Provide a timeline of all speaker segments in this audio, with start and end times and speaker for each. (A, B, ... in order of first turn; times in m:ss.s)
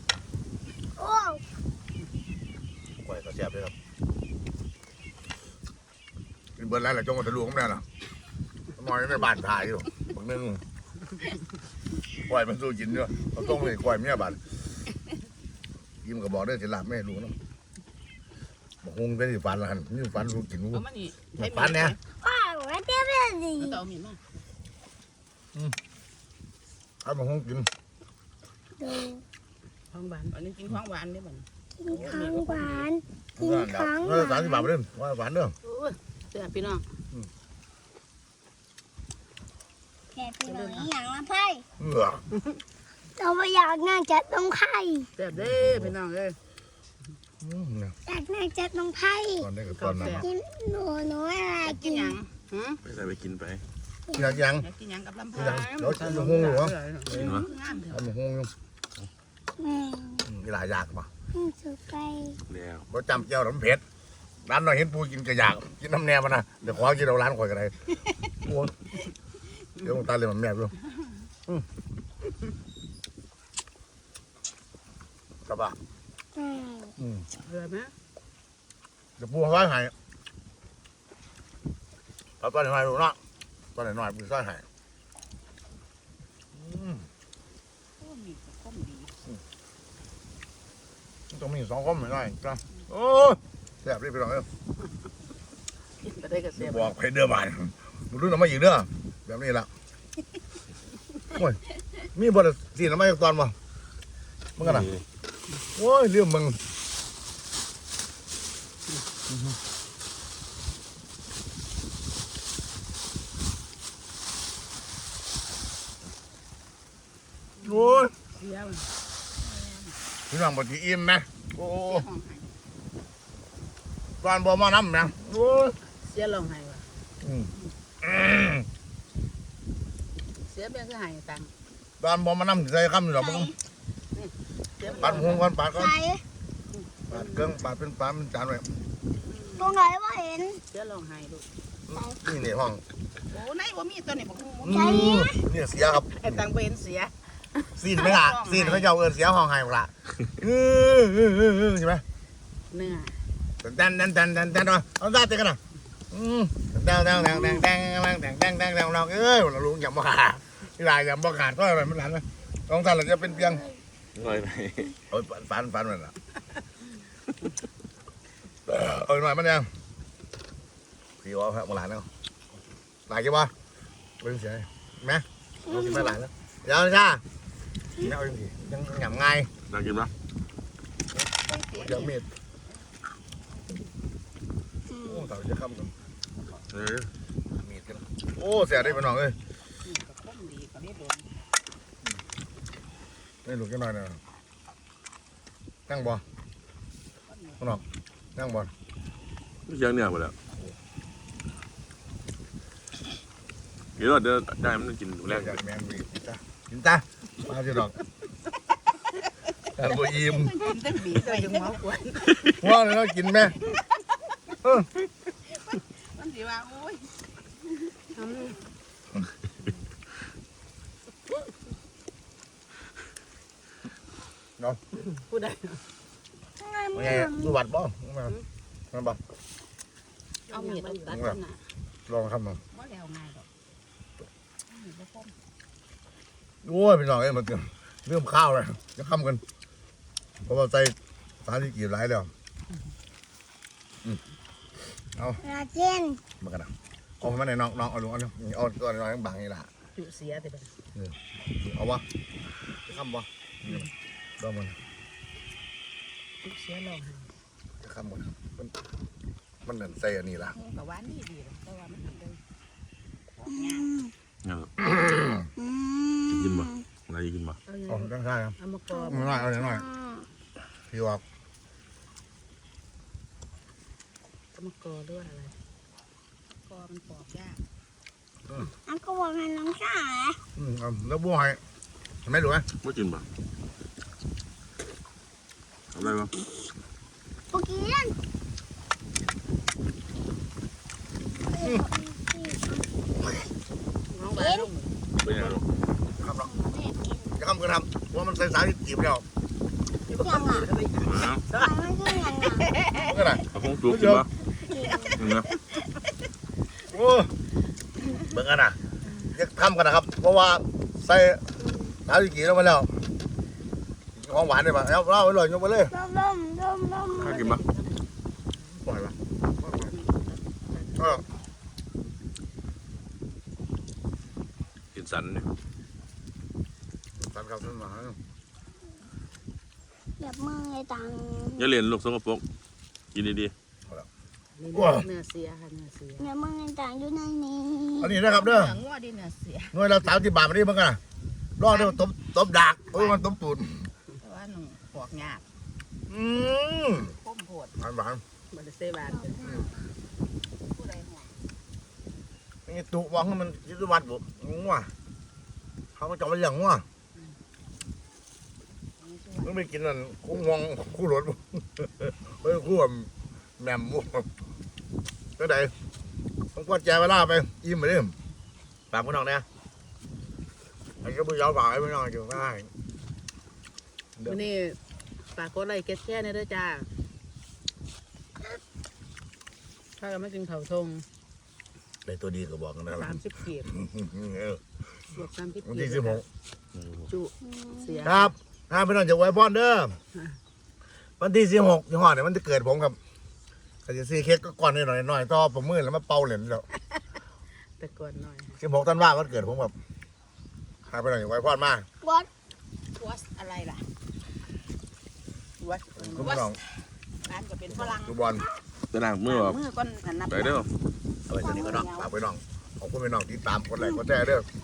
0:01.0-0:01.4 A
0:03.0-0:03.7 B
0:06.6-0:07.8 B
0:08.8-0:10.6 B
0:12.3-0:14.4 B
0:16.0-0:17.4 B
0:18.8-0:20.8 B
0:20.7-0:22.0 C
0:21.4-0:21.9 B
0:22.1-0:23.8 A
0:23.6-0:24.2 C
0:27.0-0:27.7 B
0:28.8-0:29.2 A
0:29.9-0:30.3 D
0:30.3-0:32.9 C
0:31.8-0:34.7 A
0:31.9-0:32.2 D
0:33.4-0:35.5 B
0:35.6-0:36.8 D
0:40.1-0:41.6 A
0:40.4-0:40.9 D
0:41.8-0:42.2 B
0:43.2-0:45.1 A
0:45.2-0:46.4 D
0:45.3-0:45.9 B
0:47.4-0:48.0 B
0:48.0-0:49.5 A
0:49.4-0:50.3 B
0:49.8-0:50.3 D
0:50.1-0:52.2 A
0:51.6-0:52.3 C
0:52.5-0:52.8 D
0:52.8-0:53.6 E
0:54.1-0:54.4 A
0:54.1-0:54.7 B
0:54.6-0:55.7 C
0:55.3-0:56.7 B
0:55.4-0:57.4 D
0:57.1-0:57.5 E
0:57.1-0:58.1 C
0:57.9-0:58.5 B
0:59.6-1:00.3 A
1:00.2-1:01.1 B
1:01.3-1:02.4 A
1:02.5-1:02.8 E
1:02.9-1:03.8 B
1:04.4-1:07.7 B
1:08.4-1:08.7 B
1:09.8-1:10.7 B
1:15.4-1:15.8 B
1:16.3-1:16.9 A
1:17.0-1:17.3 B
1:17.4-1:17.9 D
1:19.2-1:19.9 B
1:22.4-1:23.2 B
1:23.7-1:24.6 B
1:26.5-1:27.1 B
1:28.0-1:29.2 C
1:31.3-1:34.5 B
1:36.0-1:36.9 D
1:36.6-1:39.7 B
1:41.3-1:41.6 B
1:42.1-1:43.5 B
1:44.6-1:44.9 B
1:44.6-1:45.0 E
1:45.8-1:46.6 B
1:49.3-1:49.6 B
1:57.6-1:58.1 B
1:57.7-1:58.0 C
1:58.4-1:58.9 D
1:59.4-1:59.9 C
2:00.3-2:02.1 B
2:01.8-2:02.5 C
2:04.2-2:05.8 B
2:06.0-2:06.8 D
2:07.2-2:07.5 B
2:08.0-2:08.6 B
2:10.5-2:11.5 D
2:12.0-2:13.5 B
2:13.2-2:13.5 C
2:14.8-2:15.4 C
2:14.8-2:16.0 B
2:14.9-2:15.4 D
2:15.7-2:16.2 A
2:17.1-2:18.7 B
2:19.6-2:20.6 A
2:20.9-2:21.4 D
2:21.9-2:22.8 B
2:21.9-2:22.2 A
2:23.3-2:25.1 C
2:24.6-2:26.4 B
2:24.7-2:25.4 A
2:25.9-2:28.9 C
2:27.8-2:32.0 B
2:32.7-2:33.2 D
2:33.6-2:35.6 B
2:36.1-2:43.7 B
2:44.1-2:45.0 E
2:45.1-2:46.1 B
2:48.6-2:49.7 B
2:51.2-2:52.1 B
2:53.1-2:53.5 B
2:54.2-2:57.2 B
2:55.6-2:56.1 A
2:58.0-2:59.5 B
2:59.7-3:00.1 E
3:01.5-3:02.1 C
3:01.7-3:02.2 B
3:04.9-3:05.2 A
3:05.0-3:05.9 B
3:06.7-3:07.1 E
3:07.5-3:09.4 B
3:09.8-3:11.3 C
3:13.4-3:14.2 B
3:15.9-3:16.2 B
3:17.3-3:17.6 C
3:18.4-3:18.7 B
3:19.6-3:20.3 E
3:24.0-3:25.6 E
3:25.2-3:27.9 B
3:29.8-3:30.6 B
3:30.1-3:32.2 C
3:31.1-3:32.0 D
3:32.6-3:33.6 B
3:35.4-3:37.1 C
3:38.2-3:38.6 D
3:45.1-3:45.8 D
3:46.6-3:47.6 A
3:46.9-3:48.4 B
3:48.9-3:49.2 B
3:50.5-3:51.2 D
3:50.5-3:51.6 C
3:51.1-3:51.4 B
3:52.1-3:52.6 B
3:52.7-3:53.5 C
3:54.7-3:55.3 C
3:56.6-3:59.4 B
4:00.5-4:02.3 B
4:05.1-4:05.4 B
4:05.4-4:06.2 A
4:06.4-4:09.7 B
4:10.0-4:10.7 D
4:10.9-4:12.0 B
4:12.8-4:13.8 B
4:14.4-4:14.8 B
4:16.4-4:17.3 D
4:17.8-4:18.7 B
4:19.6-4:20.6 B
4:20.5-4:22.4 C
4:23.4-4:23.9 C
4:23.5-4:24.1 A
4:24.4-4:24.9 E
4:24.8-4:25.4 B
4:25.6-4:26.8 A
4:26.3-4:27.6 E
4:27.7-4:29.4 D
4:27.9-4:29.8 B
4:28.9-4:30.2 A
4:30.9-4:31.2 B
4:34.6-4:35.5 D
4:36.6-4:37.6 C
4:38.8-4:40.4 A
4:40.6-4:41.6 B
4:42.2-4:42.6 B
4:42.8-4:43.2 E
4:45.9-4:46.3 E
4:47.5-4:48.1 A
4:51.3-4:52.8 A
4:51.6-4:51.8 B
4:54.1-4:54.9 D
4:54.3-4:54.7 A
4:55.2-4:55.6 E
4:56.2-4:56.5 B
4:56.4-4:57.3 A
4:57.4-4:59.2 B
5:00.1-5:00.7 A
5:00.6-5:01.0 C
5:00.8-5:01.7 D
5:01.0-5:01.4 E
5:01.5-5:02.7 A
5:02.6-5:03.3 C
5:03.0-5:04.2 B
5:03.5-5:04.3 E
5:04.6-5:05.2 A
5:04.7-5:05.5 C
5:05.1-5:05.5 E
5:06.9-5:07.3 B
5:08.2-5:08.8 B
5:09.3-5:11.4 B
5:12.1-5:12.9 B
5:14.2-5:15.9 B
5:15.9-5:17.5 A
5:17.2-5:17.9 D
5:17.2-5:17.6 E
5:18.8-5:19.9 B
5:20.7-5:21.0 D
5:21.0-5:21.2 B
5:24.9-5:25.5 E
5:27.2-5:28.2 B
5:30.2-5:31.7 A
5:31.5-5:32.4 E
5:33.1-5:33.5 E
5:34.6-5:36.3 D
5:34.7-5:35.0 B
5:36.2-5:38.2 A
5:38.0-5:38.8 B
5:38.3-5:39.7 C
5:39.7-5:41.0 B
5:41.6-5:43.9 B
5:41.6-5:42.0 C
5:42.9-5:43.2 C
5:44.2-5:45.4 C
5:46.1-5:47.1 B
5:47.0-5:47.7 C
5:47.8-5:48.2 B
5:48.5-5:49.3 D
5:49.0-5:49.9 A
5:49.4-5:49.7 B
5:50.7-5:51.4 C
5:52.7-5:54.9 B
5:56.0-5:56.8 B
5:59.0-5:59.6 C
5:59.4-6:04.3 B
6:05.4-6:05.7 B
6:06.5-6:08.2 B
6:08.9-6:09.4 B
6:11.0-6:12.7 B
6:14.2-6:14.4 B
6:14.3-6:14.8 D
6:15.3-6:16.9 D
6:20.0-6:21.0 D
6:22.0-6:24.6 B
6:23.0-6:23.7 D
6:25.1-6:26.2 D
6:25.6-6:26.2 B
6:26.7-6:27.1 E
6:27.1-6:28.3 D
6:27.4-6:28.1 A
6:28.0-6:30.0 B
6:31.2-6:33.0 B
6:33.8-6:36.7 B
6:37.8-6:38.6 D
6:38.6-6:39.7 B
6:40.9-6:41.8 B
6:42.0-6:42.3 A
6:42.9-6:43.9 C
6:46.0-6:46.6 B
6:46.0-6:46.3 D
6:46.2-6:46.5 C
6:47.2-6:48.4 C
6:47.7-6:48.4 B
6:48.9-6:49.6 E
6:49.2-6:50.7 C
6:50.3-6:50.7 E
6:51.3-6:54.4 B
6:51.4-6:52.1 C